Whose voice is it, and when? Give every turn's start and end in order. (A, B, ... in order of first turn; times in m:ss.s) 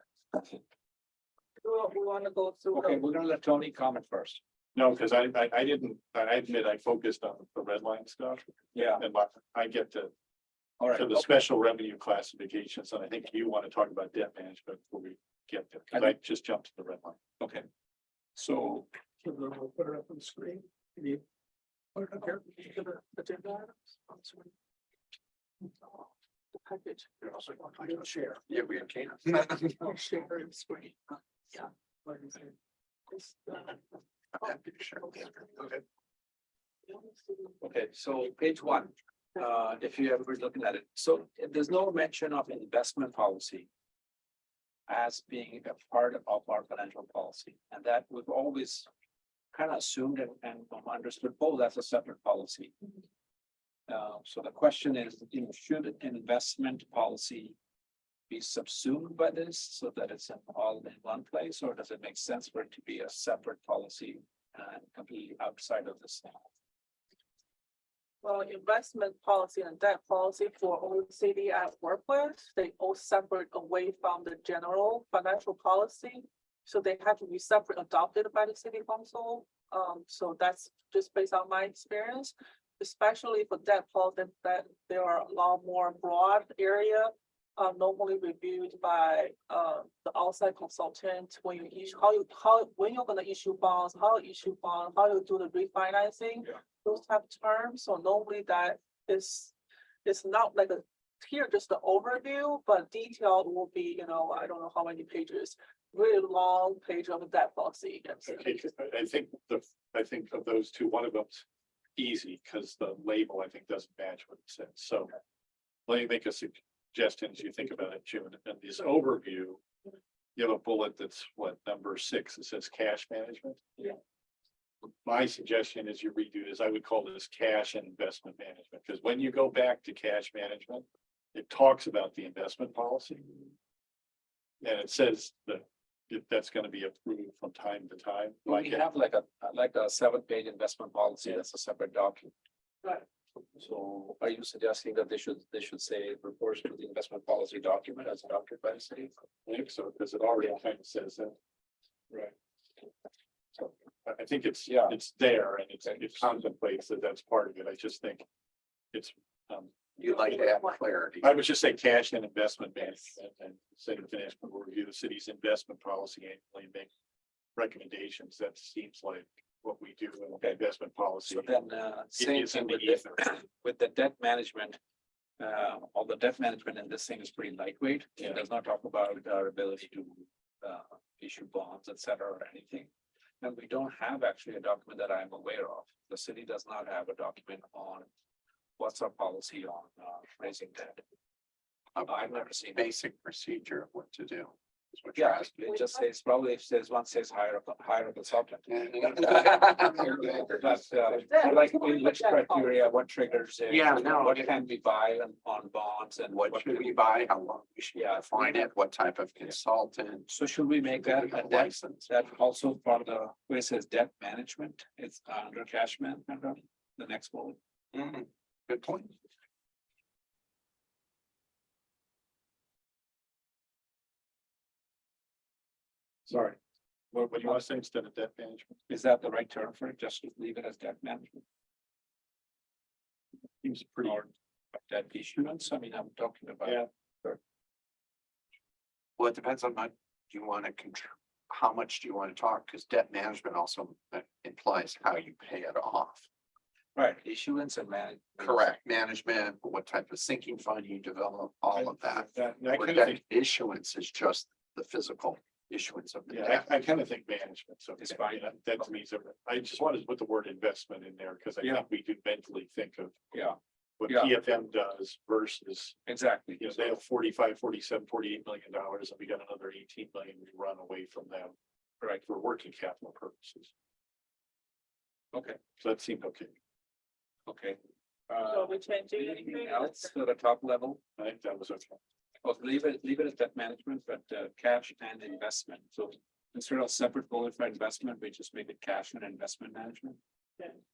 0:01.6-0:03.0 A
0:02.7-0:04.4 B
0:04.8-0:10.1 C
0:08.7-0:09.0 B
0:10.8-0:11.2 B
0:10.9-0:17.2 C
0:17.4-0:17.7 B
0:18.4-0:21.2 B
0:22.0-0:22.4 B
0:22.2-0:24.5 A
0:25.7-0:27.2 A
0:27.4-0:29.8 D
0:27.8-0:28.4 A
0:29.8-0:32.5 A
0:33.1-0:33.8 A
0:34.4-0:35.6 D
0:35.1-0:35.7 A
0:36.9-0:37.6 A
0:37.6-0:43.7 B
0:44.9-0:48.9 B
0:49.5-0:52.7 B
0:53.9-0:57.6 B
0:58.3-1:06.4 B
1:08.2-1:39.5 A
1:40.0-1:48.4 A
1:48.2-1:51.4 C
1:52.0-1:55.1 C
1:55.9-1:59.6 C
2:00.4-2:03.9 C
2:05.0-2:13.5 C
2:14.6-2:18.8 C
2:18.5-2:22.3 B
2:23.6-2:29.1 B
2:29.5-2:31.3 C
2:33.6-2:38.2 C
2:34.7-2:35.0 B
2:35.8-2:36.3 B
2:38.9-2:39.7 C
2:40.0-2:41.3 D
2:40.1-2:40.8 A
2:41.2-2:46.9 C
2:47.6-2:51.6 C
2:51.3-2:54.8 B
2:52.2-2:53.2 C
2:55.4-3:02.9 B
3:03.4-3:08.1 B
3:08.8-3:11.0 B
3:11.9-3:15.5 D
3:12.1-3:12.9 B
3:15.2-3:26.9 B
3:15.7-3:16.0 A
3:18.7-3:21.2 D
3:21.2-3:22.8 A
3:23.7-3:24.5 D
3:26.3-3:32.1 D
3:27.9-3:28.7 B
3:30.3-3:37.6 B
3:37.9-3:39.1 D
3:46.3-3:46.6 C
3:47.1-3:48.8 C
3:48.9-3:51.4 B
3:53.6-3:54.2 C
3:54.0-3:57.4 B
3:59.2-4:06.3 D
4:06.9-4:08.6 B
4:08.4-4:16.7 D
4:11.8-4:13.2 C
4:16.3-4:23.1 C
4:18.0-4:18.8 B
4:23.3-4:23.6 B
4:24.0-4:26.0 C
4:24.1-4:24.3 B
4:26.0-4:26.9 B
4:26.6-4:31.6 C
4:32.2-4:33.7 C
4:35.3-4:35.6 B
4:35.8-4:36.5 C
4:37.5-4:37.8 B
4:38.3-4:41.0 B
4:38.4-4:40.1 A
4:41.2-4:42.0 C
4:42.4-4:50.8 B